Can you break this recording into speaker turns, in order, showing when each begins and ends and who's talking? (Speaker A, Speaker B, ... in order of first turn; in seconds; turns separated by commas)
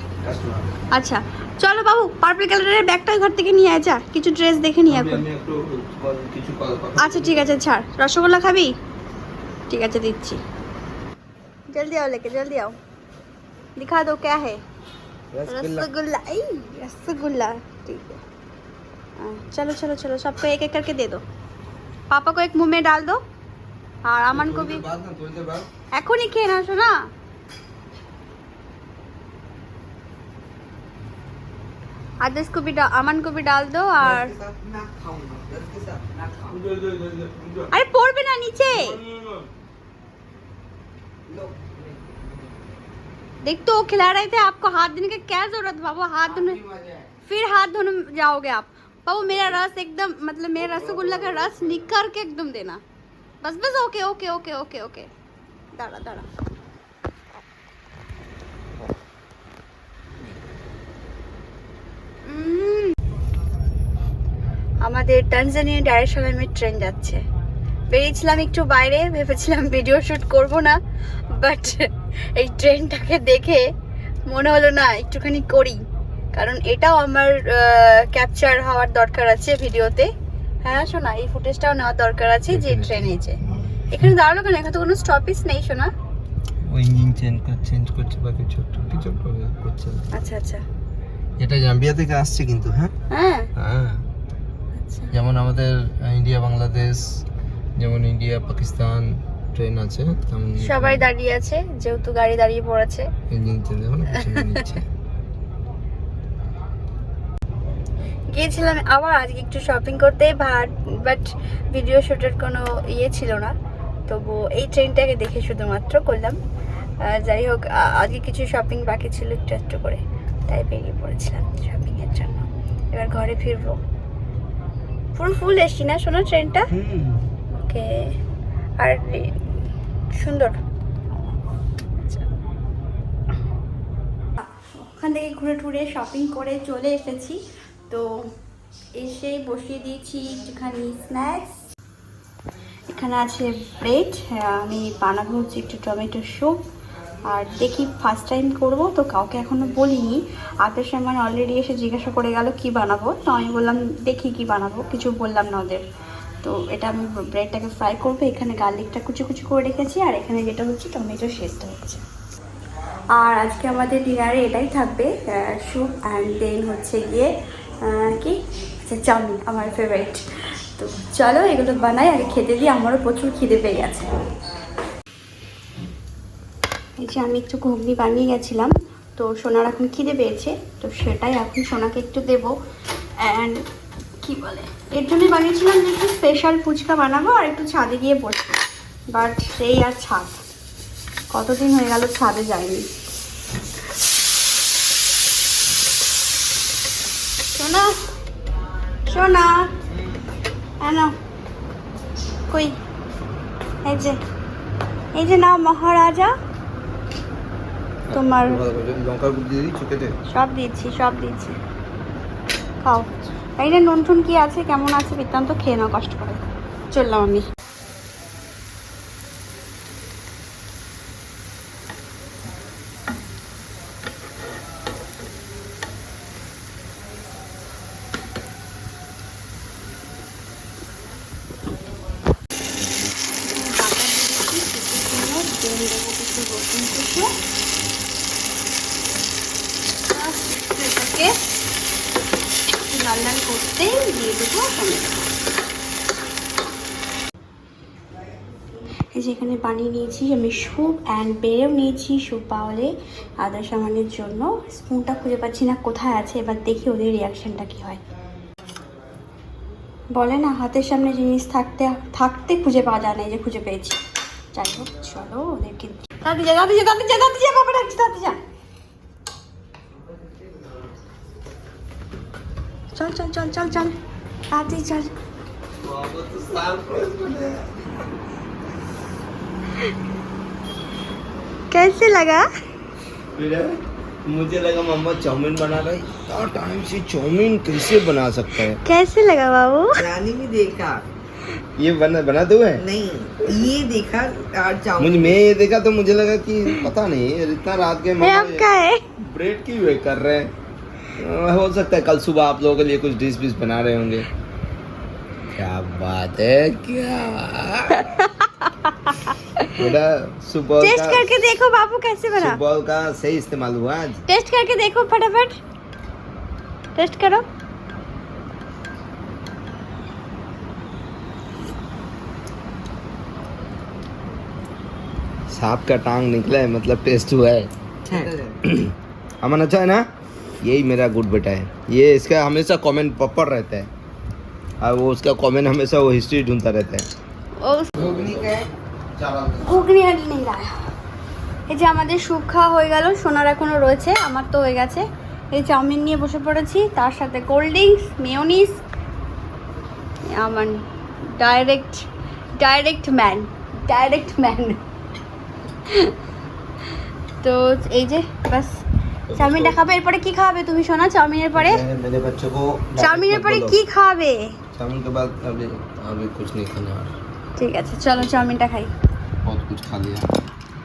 Speaker A: 0.2-0.7, Speaker B: 0.9-5.2, Speaker A: 4.9-7.5, Speaker B: 7.0-8.7, Speaker B: 9.7-10.4, Speaker B: 11.7-12.7, Speaker B: 13.8-14.6, Speaker A: 15.3-15.9, Speaker B: 15.5-18.2, Speaker B: 19.2-21.2, Speaker B: 22.1-23.2, Speaker B: 24.0-24.8, Speaker A: 24.3-25.7, Speaker B: 25.9-26.9, Speaker B: 32.2-34.3, Speaker C: 34.0-36.6, Speaker A: 34.0-34.3, Speaker A: 36.5-37.7, Speaker B: 37.7-39.0, Speaker A: 38.7-39.5, Speaker C: 41.3-42.6, Speaker B: 43.4-46.6, Speaker C: 46.2-47.1, Speaker B: 47.3-52.8, Speaker A: 50.6-51.5, Speaker B: 53.4-55.1, Speaker B: 55.8-56.3, Speaker B: 62.3-62.9, Speaker B: 64.8-67.2, Speaker B: 67.9-70.8, Speaker B: 71.3-73.7, Speaker B: 74.3-75.8, Speaker B: 76.3-80.1, Speaker B: 80.6-83.4, Speaker A: 82.5-84.1, Speaker B: 83.9-85.9, Speaker A: 86.7-90.1, Speaker B: 90.1-90.6, Speaker A: 91.4-92.9, Speaker B: 93.1-93.5, Speaker A: 93.6-94.0, Speaker B: 94.8-95.1, Speaker A: 95.1-97.2, Speaker A: 97.8-101.1, Speaker B: 100.6-103.1, Speaker A: 103.3-104.9, Speaker B: 104.1-104.6, Speaker B: 108.3-113.5, Speaker B: 114.1-116.4, Speaker B: 117.0-123.8, Speaker B: 125.1-126.7, Speaker A: 126.7-127.2, Speaker B: 127.5-128.1, Speaker B: 128.8-129.5, Speaker B: 130.1-130.6, Speaker B: 132.0-132.3, Speaker B: 134.5-138.1, Speaker B: 139.0-141.6, Speaker B: 142.9-146.6, Speaker B: 147.3-155.8, Speaker B: 156.4-162.0, Speaker B: 163.2-167.3, Speaker B: 167.8-170.2, Speaker B: 170.8-174.1, Speaker B: 177.0-182.5, Speaker B: 183.2-183.6, Speaker B: 184.2-188.6, Speaker B: 189.1-190.4, Speaker B: 191.3-192.8, Speaker B: 197.5-197.9, Speaker B: 199.1-199.7, Speaker B: 200.8-201.1, Speaker B: 203.8-204.2, Speaker B: 205.2-206.3, Speaker A: 208.1-210.1, Speaker B: 208.1-208.6, Speaker B: 210.3-211.6, Speaker B: 212.8-216.4, Speaker B: 216.9-217.4, Speaker B: 233.4-237.3, Speaker B: 240.1-241.3, Speaker B: 242.9-245.3, Speaker B: 249.1-258.0, Speaker B: 260.1-264.0, Speaker B: 264.5-268.4, Speaker B: 272.9-273.9, Speaker B: 274.5-275.1, Speaker A: 275.8-277.8, Speaker B: 281.7-282.4, Speaker A: 283.3-283.7, Speaker A: 284.2-288.8, Speaker B: 288.8-290.0, Speaker C: 289.9-291.0, Speaker A: 291.8-292.8, Speaker C: 292.8-295.4, Speaker A: 295.0-298.7, Speaker B: 298.2-299.0, Speaker A: 299.2-300.5, Speaker A: 301.2-304.3, Speaker A: 305.5-308.0, Speaker B: 307.9-309.9, Speaker A: 309.7-311.3, Speaker B: 310.8-312.6, Speaker A: 312.4-314.2, Speaker B: 314.3-315.6, Speaker B: 316.9-317.4, Speaker A: 325.5-330.0, Speaker C: 328.1-328.6, Speaker A: 330.6-333.9, Speaker A: 334.8-337.1, Speaker B: 337.6-337.9, Speaker A: 337.9-338.6, Speaker C: 337.9-338.7, Speaker A: 339.1-339.9, Speaker B: 339.6-340.7, Speaker B: 341.7-348.8, Speaker B: 350.4-350.7, Speaker B: 351.4-352.1, Speaker B: 352.6-354.8, Speaker B: 355.9-356.1, Speaker B: 357.4-358.8, Speaker A: 359.3-359.8, Speaker B: 359.3-361.8, Speaker A: 361.5-363.8, Speaker B: 363.0-364.5, Speaker A: 364.7-367.1, Speaker B: 367.6-368.9, Speaker A: 369.4-370.2